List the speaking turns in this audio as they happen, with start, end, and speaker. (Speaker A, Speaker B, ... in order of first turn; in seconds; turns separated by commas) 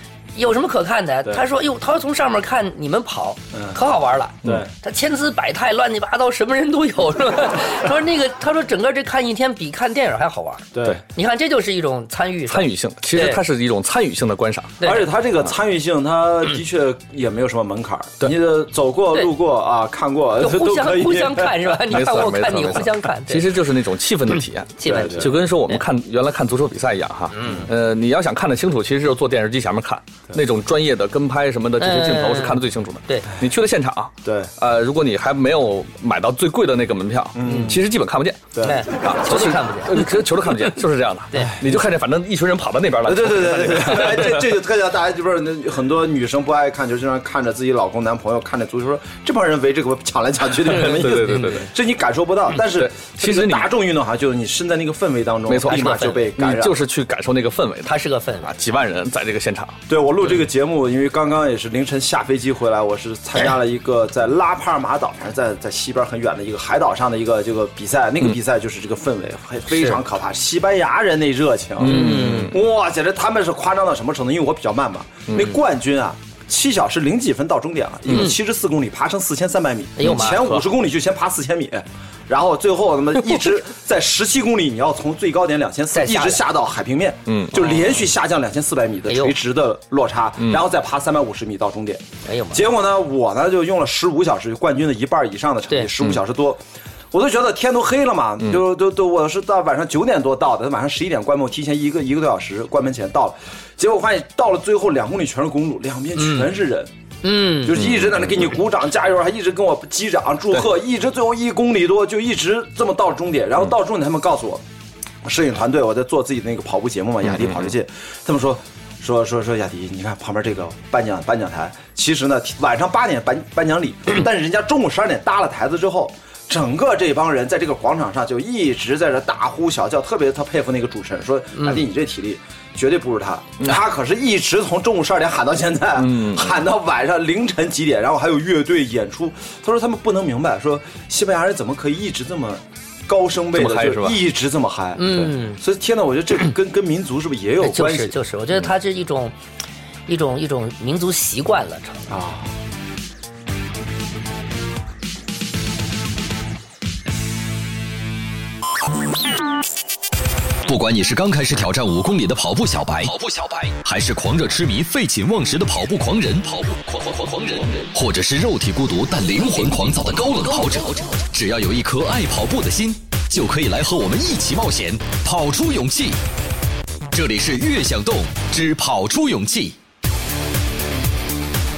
Speaker A: 0.3-13.4, Speaker B: 3.5-3.8, Speaker B: 4.4-4.7, Speaker B: 10.7-11.0, Speaker C: 12.5-14.8, Speaker A: 14.8-15.1, Speaker B: 14.8-21.8, Speaker A: 20.4-23.5, Speaker C: 21.9-44.5, Speaker A: 24.8-25.8, Speaker B: 24.9-25.3, Speaker A: 27.3-27.7, Speaker B: 27.4-27.7, Speaker A: 31.8-33.3, Speaker B: 34.2-34.5, Speaker B: 37.4-37.9, Speaker A: 37.4-37.7, Speaker B: 38.5-38.9, Speaker A: 38.6-40.4, Speaker A: 41.3-41.6, Speaker B: 41.4-41.7, Speaker B: 43.0-56.8, Speaker C: 50.7-51.7, Speaker A: 50.7-51.7, Speaker C: 52.7-53.7, Speaker C: 55.5-59.8, Speaker A: 55.7-56.2, Speaker A: 57.8-58.5, Speaker B: 59.9-106.9, Speaker A: 69.8-70.0, Speaker C: 71.8-72.6, Speaker A: 71.8-72.6, Speaker A: 80.0-80.4, Speaker C: 80.0-80.6, Speaker A: 85.9-86.5, Speaker C: 87.3-87.6, Speaker A: 89.1-89.4, Speaker A: 92.2-92.7, Speaker A: 106.2-106.5, Speaker A: 107.2-107.9, Speaker B: 107.6-114.6, Speaker C: 107.9-108.3, Speaker B: 115.2-148.2, Speaker C: 117.3-117.6, Speaker A: 131.5-131.8, Speaker C: 136.0-136.6, Speaker C: 143.6-144.2, Speaker A: 145.0-145.6, Speaker A: 147.6-149.3, Speaker A: 150.1-152.1, Speaker B: 152.1-152.5, Speaker D: 160.7-176.2, Speaker D: 177.1-179.8